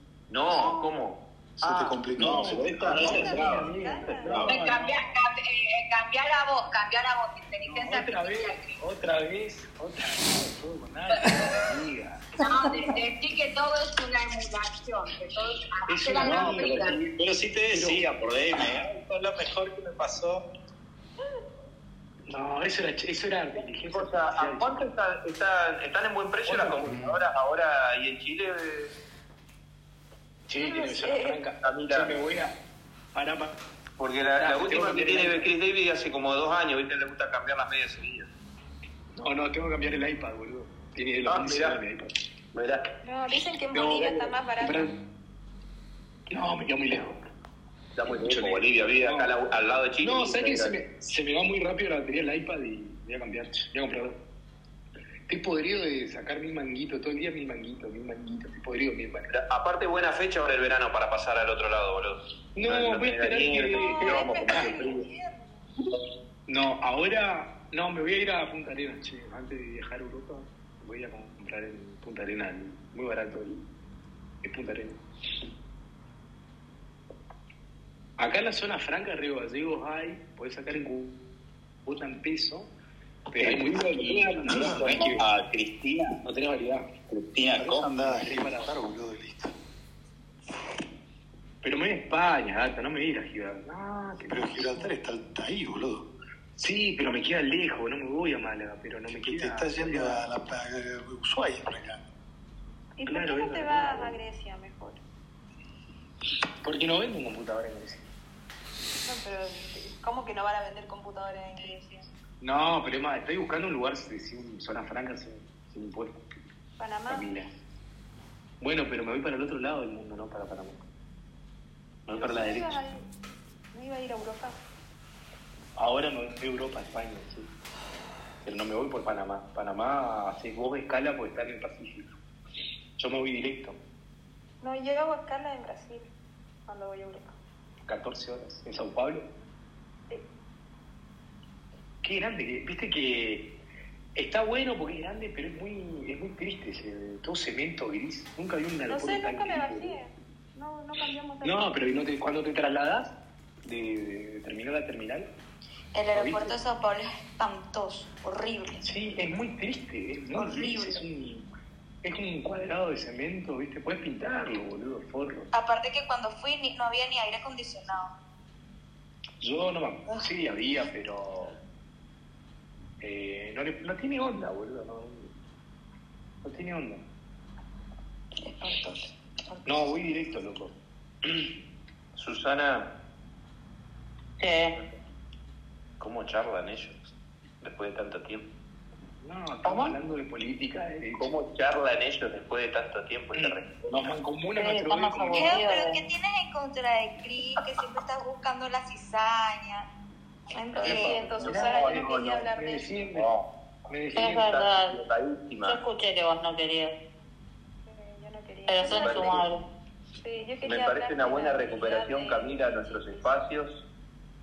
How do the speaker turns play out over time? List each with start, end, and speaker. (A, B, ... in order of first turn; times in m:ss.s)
0:00.3-0:03.7 A
0:01.6-0:03.4 B
0:02.2-0:05.1 C
0:03.4-0:03.7 D
0:03.8-0:04.4 E
0:04.4-0:08.8 F
0:07.6-0:12.3 C
0:12.4-0:17.0 F
0:15.9-0:16.9 C
0:16.1-0:20.4 G
0:17.7-0:18.0 C
0:22.3-0:24.9 C
0:23.8-0:28.9 A
0:26.4-0:27.0 C
0:30.5-0:32.5 C
0:30.6-0:31.4 E
0:31.6-0:32.3 A
0:33.1-0:33.6 C
0:34.0-0:38.3 A
0:34.4-0:35.5 C
0:39.2-0:42.1 C
0:41.2-0:41.8 A
0:42.5-0:42.8 A
0:43.0-0:44.9 E
0:44.6-0:44.9 C
0:46.3-0:47.2 C
0:48.0-0:50.7 A
0:48.1-0:49.3 C
0:50.0-0:54.2 C
0:55.3-0:59.3 C
0:59.3-1:04.8 A
1:02.5-1:05.0 C
1:03.7-1:05.6 E
1:06.5-1:13.6 C
1:14.4-1:15.0 C
1:18.2-1:21.2 C
1:21.8-1:22.7 C
1:23.3-1:25.2 C
1:24.4-1:25.1 B
1:24.5-1:26.1 G
1:24.5-1:25.0 A
1:26.2-1:26.9 C
1:27.1-1:27.9 G
1:27.5-1:29.5 B
1:28.0-1:28.8 C
1:31.6-1:34.8 C
1:34.3-1:36.1 B
1:36.6-1:40.2 C
1:39.1-1:42.0 B
1:43.0-1:45.0 E
1:43.1-1:44.2 C
1:46.6-1:48.0 C
1:49.0-1:52.1 E
1:52.4-1:56.2 C
1:56.8-1:57.3 E
1:57.1-1:57.5 C
1:58.6-2:00.8 C
2:02.1-2:02.8 C
2:02.1-2:03.0 E
2:03.7-2:04.6 E
2:05.8-2:07.5 C
2:08.4-2:12.1 C
2:13.0-2:13.8 C
2:14.6-2:16.1 E
2:16.7-2:17.3 E
2:17.9-2:19.3 C
2:22.0-2:23.5 C
2:24.2-2:30.0 C
2:28.9-2:31.7 E
2:31.4-2:35.3 C
2:35.9-2:38.8 D
2:36.1-2:36.6 C
2:38.8-2:41.4 C
2:40.4-2:40.9 D
2:42.0-2:45.5 C
2:45.5-2:48.1 D
2:49.4-2:51.6 C
2:53.0-2:55.3 C
2:56.4-2:57.0 C
2:58.4-2:59.8 H
2:59.6-3:01.5 C
3:02.2-3:02.9 A
3:04.4-3:04.7 H
3:06.0-3:07.0 A
3:07.6-3:08.4 A
3:09.2-3:11.3 C
3:11.2-3:14.1 A
3:13.4-3:15.6 C
3:14.6-3:16.0 H
3:15.4-3:19.9 D
3:20.5-3:21.2 H
3:20.8-3:22.9 E
3:20.8-3:23.3 C
3:20.8-3:21.7 A
3:23.9-3:24.5 C
3:24.1-3:25.0 H
3:24.3-3:25.8 A
3:25.6-3:26.9 H
3:27.8-3:29.5 E
3:28.7-3:29.6 H
3:28.8-3:29.4 A
3:30.2-3:33.3 E
3:30.6-3:33.8 A